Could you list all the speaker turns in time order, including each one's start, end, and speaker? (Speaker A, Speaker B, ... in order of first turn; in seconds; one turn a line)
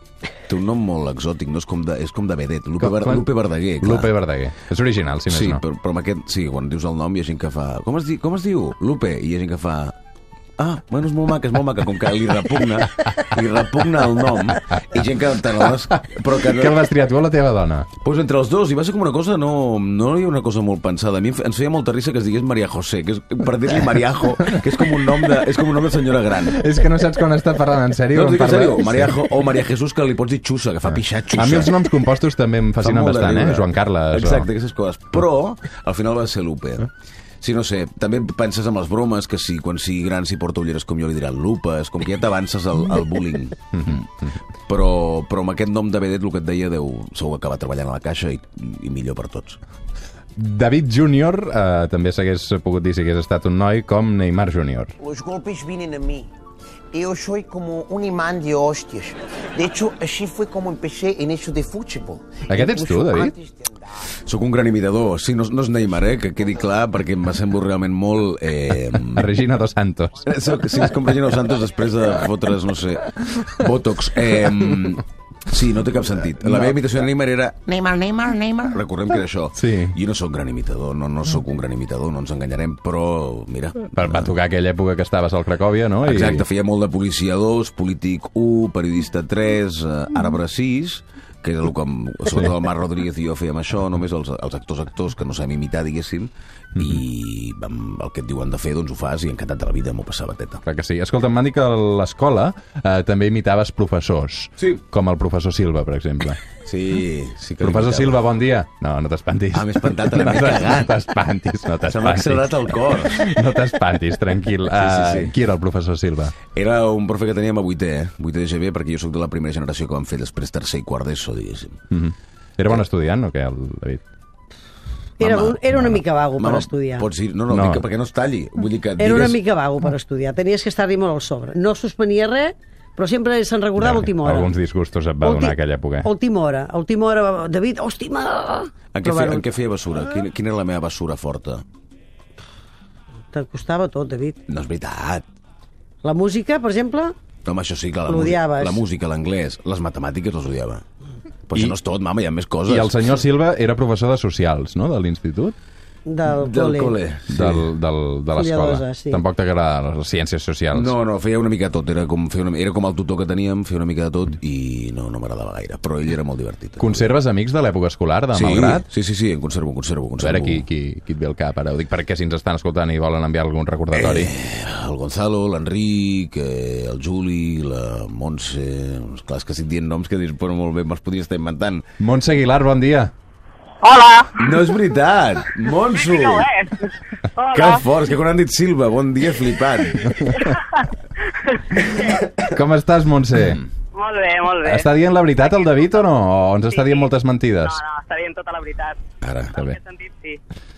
Speaker A: 0.5-4.1
Speaker B: 2.8-3.3
Speaker B: 3.8-5.6
Speaker A: 5.3-9.9
Speaker A: 10.6-16.9
Speaker B: 16.5-17.9
Speaker A: 18.0-26.7
Speaker B: 26.5-29.1
Speaker A: 28.1-31.9
Speaker B: 31.4-34.5
Speaker A: 32.8-36.9
Speaker A: 37.4-44.1
Speaker B: 43.7-44.3
Speaker A: 44.7-49.6
Speaker B: 50.4-54.9
Speaker C: 55.0-56.3
Speaker C: 56.9-64.1
Speaker B: 62.5-63.4
Speaker A: 64.2-69.3
Speaker B: 69.0-70.3
Speaker A: 70.2-84.3
Speaker C: 77.7-78.6
Speaker B: 79.6-80.0
Speaker B: 83.9-86.5
Speaker A: 86.0-100.6
Speaker B: 96.8-97.0
Speaker B: 100.7-106.4
Speaker A: 106.7-108.2
Speaker B: 107.6-116.4
Speaker A: 109.5-111.0
Speaker A: 111.9-113.3
Speaker A: 114.7-115.3
Speaker A: 116.5-121.8
Speaker B: 121.9-124.0
Speaker D: 125.2-127.1
Speaker A: 125.2-125.7
Speaker A: 126.4-129.4
Speaker B: 127.5-127.8
Speaker D: 129.0-134.5
Speaker B: 133.8-136.1
Speaker D: 135.2-139.4
Speaker A: 138.9-141.6
Speaker D: 143.3-144.4
Speaker A: 144.5-145.2
Speaker D: 146.0-147.1
Speaker A: 147.4-150.8
Speaker D: 148.1-148.8
Speaker A: 151.5-153.0
Speaker B: 152.7-155.6
Speaker D: 156.1-157.0
Speaker A: 156.4-157.7
Speaker B: 157.3-160.9
Speaker D: 158.4-159.2
Speaker A: 160.7-167.1
Speaker B: 166.8-168.8
Speaker A: 168.3-170.6
Speaker B: 170.2-174.3
Speaker A: 173.9-181.9
Speaker B: 182.0-183.1
Speaker E: 183.8-184.8
Speaker A: 184.4-186.5
Speaker E: 185.7-187.8
Speaker A: 187.5-190.2
Speaker B: 190.1-190.4
Speaker E: 190.4-190.9
Speaker E: 191.5-192.5
Speaker B: 192.4-193.6
Speaker E: 193.9-196.1
Speaker B: 194.6-197.8
Speaker E: 196.7-199.0
Speaker A: 199.2-199.6
Speaker E: 199.5-200.4